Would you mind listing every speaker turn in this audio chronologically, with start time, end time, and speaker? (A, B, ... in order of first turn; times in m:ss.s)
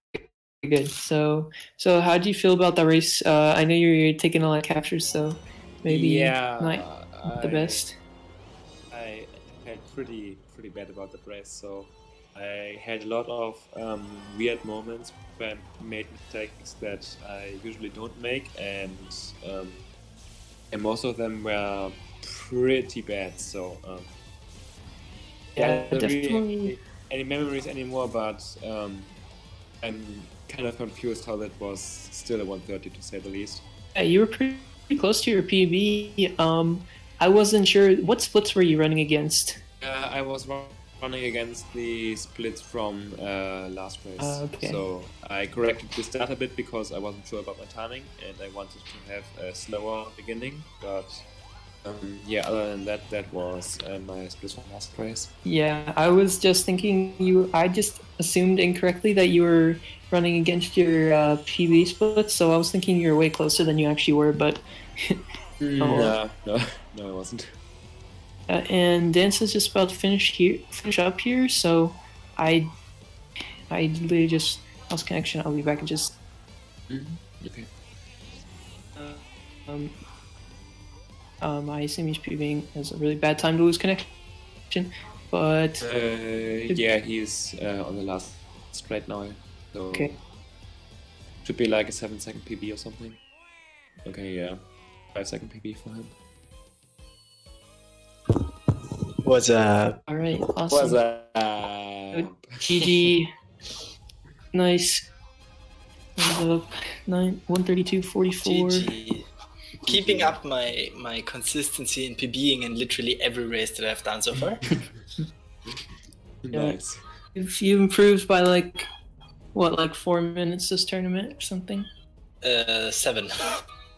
0:00.2-0:08.0 A
0:05.8-0:07.9 B
0:08.9-0:19.8 B
0:20.7-0:24.1 B
0:25.6-0:29.1 B
0:25.6-0:26.7 A
0:29.8-0:33.6 B
0:33.9-0:39.6 A
0:39.8-0:51.2 B
0:44.2-0:44.8 A
0:51.8-0:55.3 B
0:55.4-1:05.2 A
1:05.6-1:07.6 B
1:05.8-1:06.2 A
1:08.5-1:12.7 A
1:13.7-1:16.2 A
1:16.9-1:17.7 B
1:19.0-1:19.9 A
1:21.4-1:24.1 A
1:24.7-1:25.9 A
1:25.8-1:30.2 B
1:31.4-1:33.2 B
1:34.0-1:34.6 B
1:35.1-1:36.1 B
1:39.2-1:40.0 C
1:40.1-1:41.0 A
1:40.7-1:43.1 B
1:42.1-1:43.3 A
1:44.5-1:45.1 A
1:46.2-1:48.9 A
1:48.4-1:49.3 C
1:49.9-1:54.6 C
1:49.9-1:50.4 B
1:56.4-1:57.0 B
1:56.5-1:56.8 A
1:57.3-1:58.9 A
1:59.5-2:01.9 A
2:02.4-2:03.6 C